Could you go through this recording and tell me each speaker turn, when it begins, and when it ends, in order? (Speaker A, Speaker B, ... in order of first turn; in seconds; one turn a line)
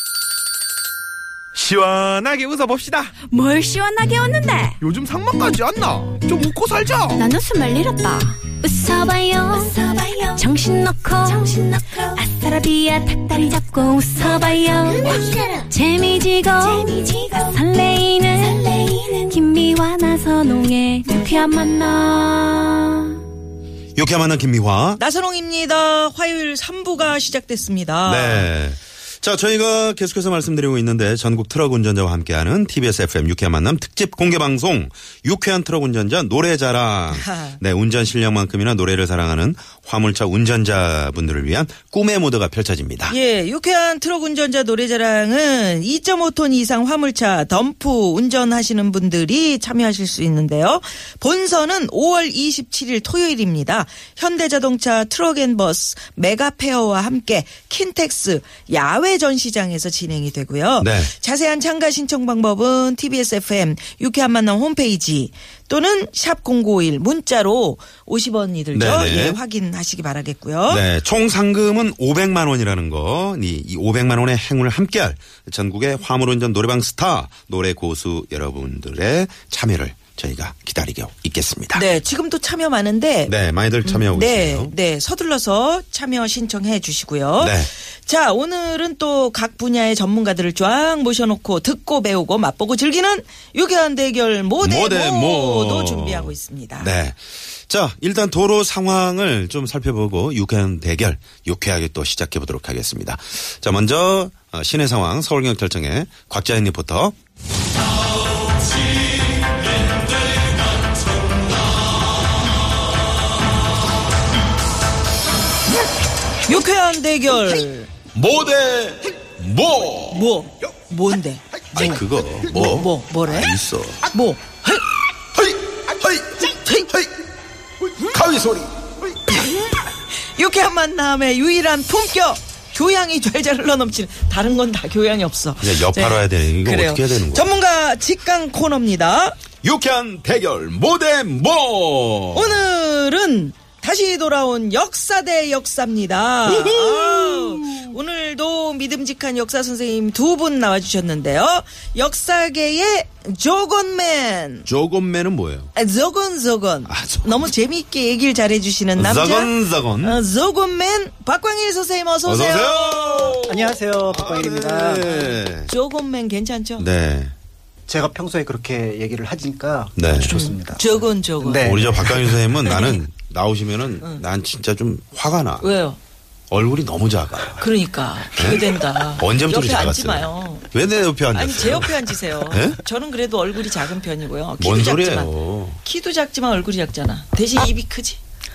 Speaker A: 1.6-3.2
Speaker B: 3.3-4.8
Speaker A: 4.8-7.3
Speaker B: 7.2-23.2
Speaker C: 24.0-25.0
Speaker D: 25.0-28.5
Speaker C: 28.1-43.2
Speaker D: 37.1-37.6
Speaker D: 43.1-70.8
Speaker C: 60.8-61.1
Speaker C: 68.7-69.4
Speaker C: 70.7-81.9
Speaker D: 81.7-96.9
Speaker C: 83.3-84.7
Speaker C: 87.4-87.7
Speaker C: 94.6-107.2
Speaker D: 116.5-117.9
Speaker C: 118.1-120.2
Speaker D: 120.1-123.5
Speaker C: 121.7-124.1
Speaker D: 124.1-124.9
Speaker C: 125.3-127.1
Speaker C: 128.0-128.7
Speaker D: 129.3-139.4
Speaker C: 135.6-137.5
Speaker C: 139.6-142.6
Speaker D: 142.3-154.7
Speaker C: 146.5-147.9
Speaker C: 154.7-155.7
Speaker D: 155.8-163.4
Speaker C: 156.9-157.3
Speaker C: 159.0-160.2
Speaker C: 162.2-165.7
Speaker E: 163.4-165.2
Speaker D: 165.2-166.9
Speaker C: 166.8-167.3
Speaker E: 167.9-172.1
Speaker C: 170.0-170.3
Speaker D: 170.2-173.0
Speaker C: 171.6-175.7
Speaker D: 175.6-176.0
Speaker C: 176.5-177.7
Speaker D: 177.6-180.7
Speaker C: 178.4-182.8
Speaker D: 181.3-188.2
Speaker C: 184.6-185.8